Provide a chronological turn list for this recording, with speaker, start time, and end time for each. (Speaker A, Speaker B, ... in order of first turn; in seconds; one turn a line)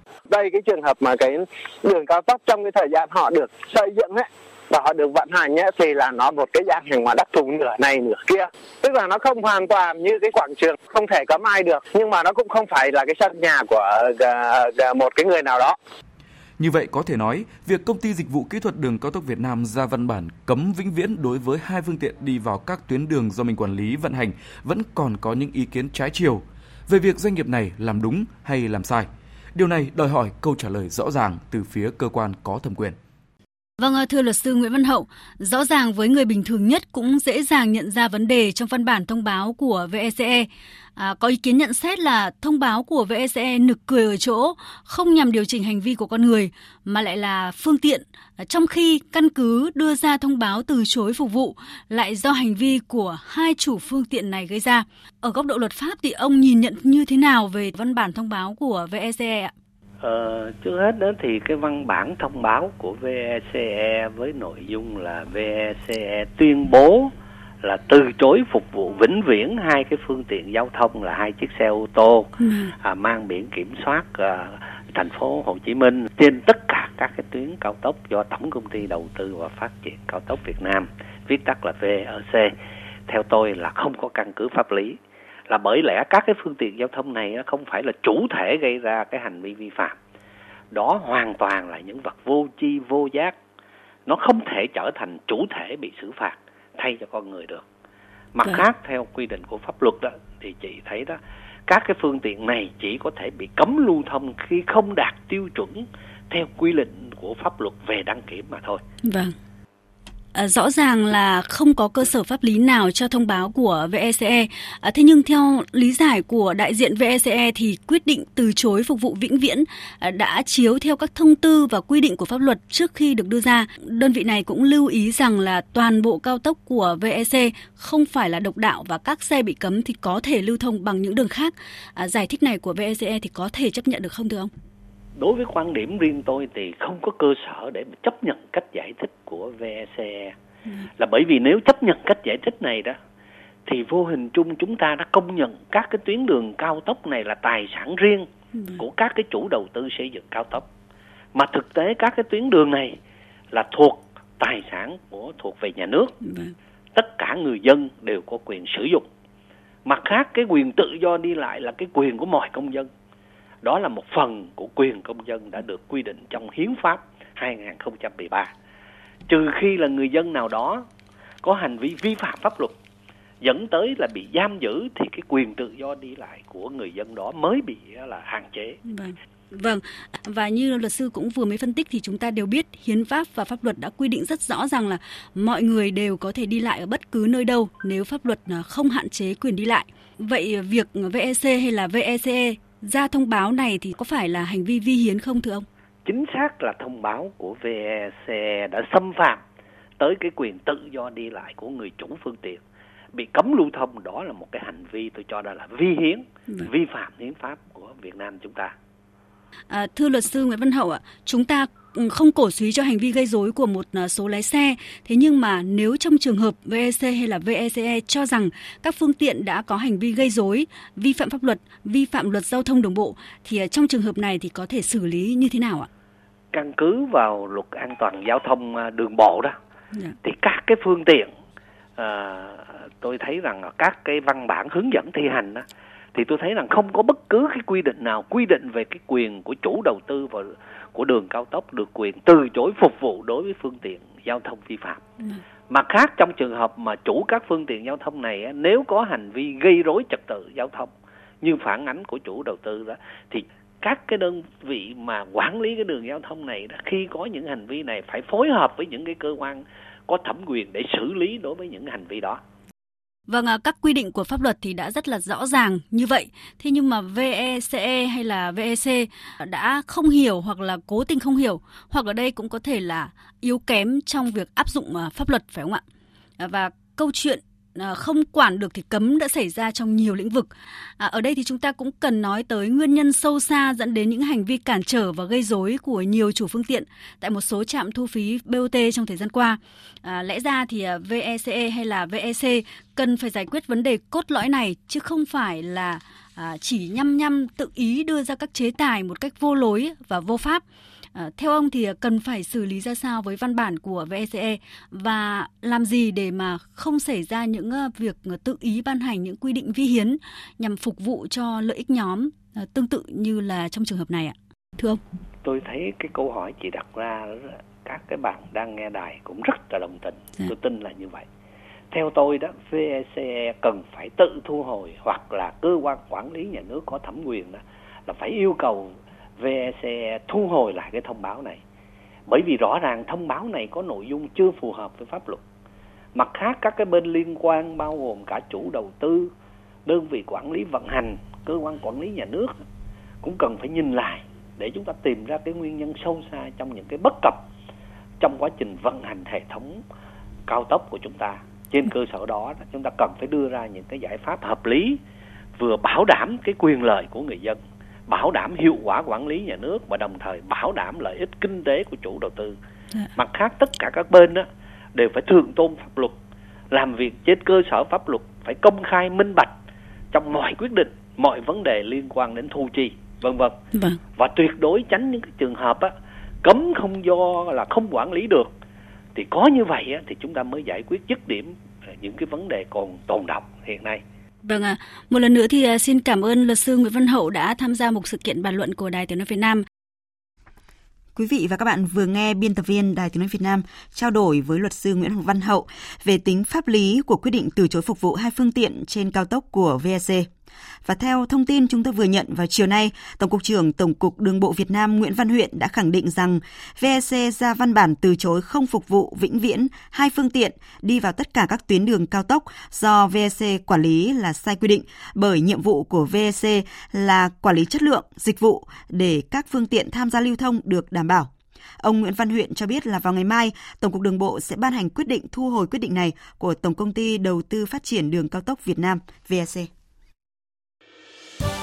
Speaker A: 0.3-15.8
Speaker B: 16.6-33.0
Speaker C: 33.8-59.5
Speaker D: 60.0-82.5
Speaker C: 72.4-72.7
Speaker D: 83.1-90.0
Speaker D: 90.7-93.4
Speaker D: 94.1-97.7
Speaker D: 98.3-108.8
Speaker C: 109.0-109.4
Speaker C: 110.3-134.5
Speaker D: 135.2-140.3
Speaker D: 141.0-143.0
Speaker D: 143.7-148.3
Speaker C: 148.6-148.8
Speaker D: 148.8-150.7
Speaker D: 151.3-153.0
Speaker D: 153.5-156.2
Speaker C: 156.2-156.5
Speaker D: 156.9-159.1
Speaker D: 159.8-162.9
Speaker D: 163.6-168.5
Speaker D: 169.3-170.9
Speaker D: 171.4-172.8
Speaker D: 173.4-178.8
Speaker C: 178.9-195.7
Speaker D: 196.1-199.4
Speaker D: 200.0-202.6
Speaker D: 203.1-208.7
Speaker C: 209.7-225.9
Speaker D: 226.5-229.6
Speaker D: 230.2-231.3
Speaker D: 232.0-245.0
Speaker D: 245.7-262.4
Speaker C: 263.3-275.8
Speaker C: 276.4-300.6
Speaker C: 301.1-315.0
Speaker D: 315.4-321.3
Speaker D: 321.9-331.6
Speaker D: 332.3-335.4
Speaker D: 336.1-339.3
Speaker D: 339.9-342.5
Speaker D: 343.2-347.5
Speaker D: 348.2-349.8
Speaker D: 350.5-355.0
Speaker D: 355.6-362.6
Speaker D: 363.2-366.2
Speaker D: 366.7-369.5
Speaker D: 370.1-373.6
Speaker C: 373.8-374.0
Speaker D: 374.2-378.5
Speaker D: 379.1-384.0
Speaker C: 384.4-389.6
Speaker E: 391.1-400.3
Speaker E: 400.8-429.7